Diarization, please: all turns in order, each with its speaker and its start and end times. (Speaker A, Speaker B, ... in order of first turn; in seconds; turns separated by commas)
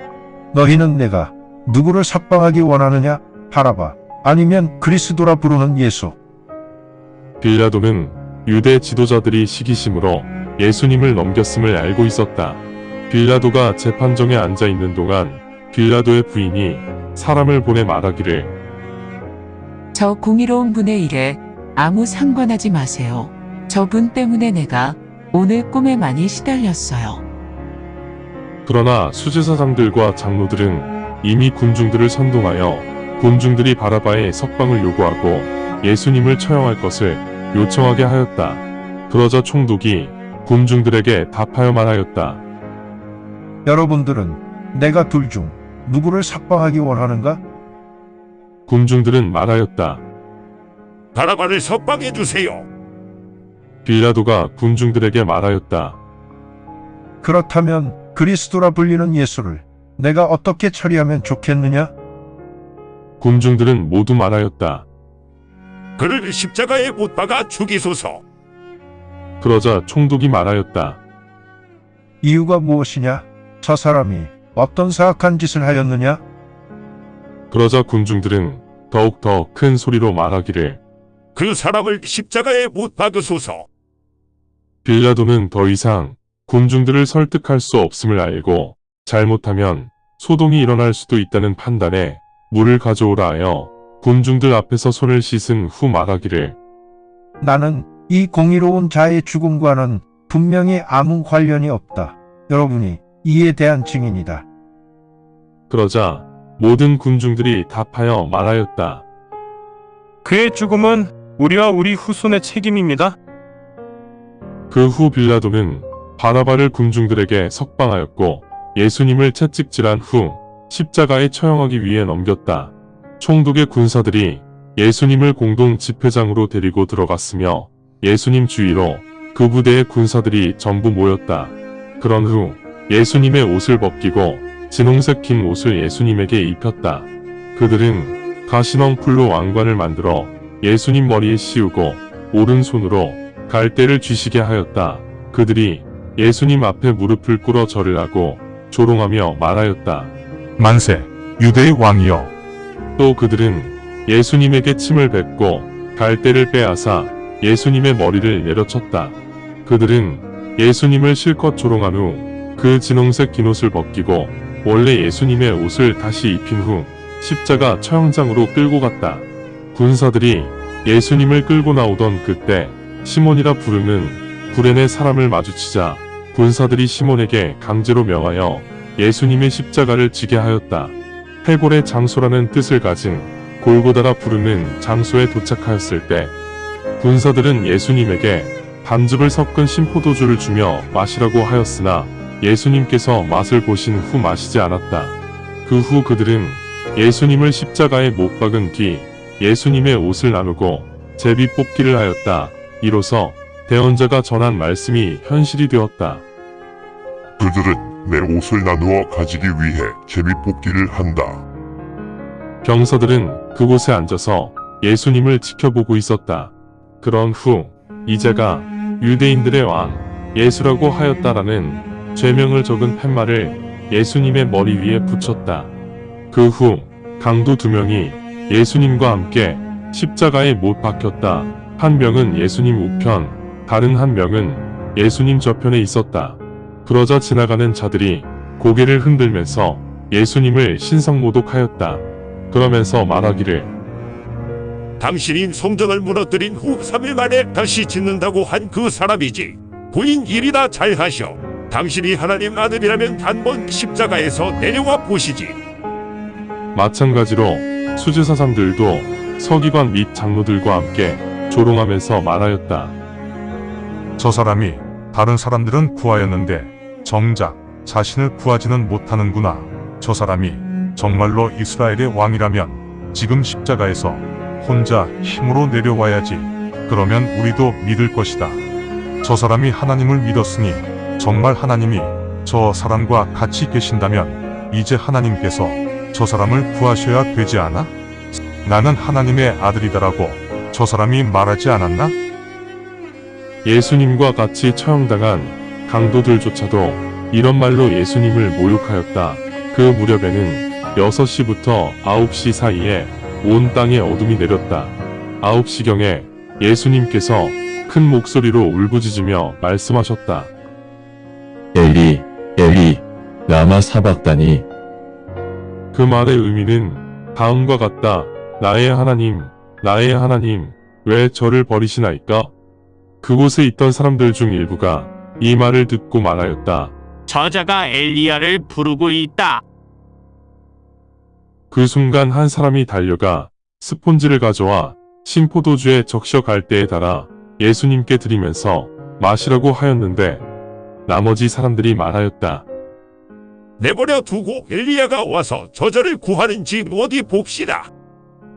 Speaker A: 0.5-6.2, Speaker B: 7.4-18.5, Speaker C: 19.9-27.2, Speaker B: 28.6-42.4, Speaker A: 43.6-47.4, Speaker B: 48.7-50.0, Speaker D: 51.1-52.6, Speaker B: 53.8-56.0, Speaker A: 57.2-61.9, Speaker B: 63.2-64.8, Speaker D: 66.0-68.2, Speaker B: 69.4-71.0, Speaker A: 72.2-76.2, Speaker B: 77.5-80.8, Speaker D: 81.3-83.7, Speaker B: 84.8-96.5, Speaker A: 97.4-104.5, Speaker B: 105.7-109.0, Speaker E: 110.2-113.2, Speaker B: 114.7-150.1, Speaker F: 150.6-152.3, Speaker B: 153.0-186.3, Speaker B: 187.0-206.2, Speaker G: 207.4-211.4, Speaker B: 212.6-225.7, Speaker B: 226.3-243.7, Speaker D: 245.0-255.6, Speaker B: 256.7-262.9, Speaker F: 264.2-278.6, Speaker F: 279.2-287.9, Speaker F: 288.6-292.2, Speaker B: 293.6-310.5, Speaker H: 311.7-314.6, Speaker B: 315.9-322.5, Speaker B: 323.2-326.9, Speaker I: 327.3-329.6, Speaker B: 331.7-340.4, Speaker B: 341.1-342.6, Speaker D: 343.8-347.9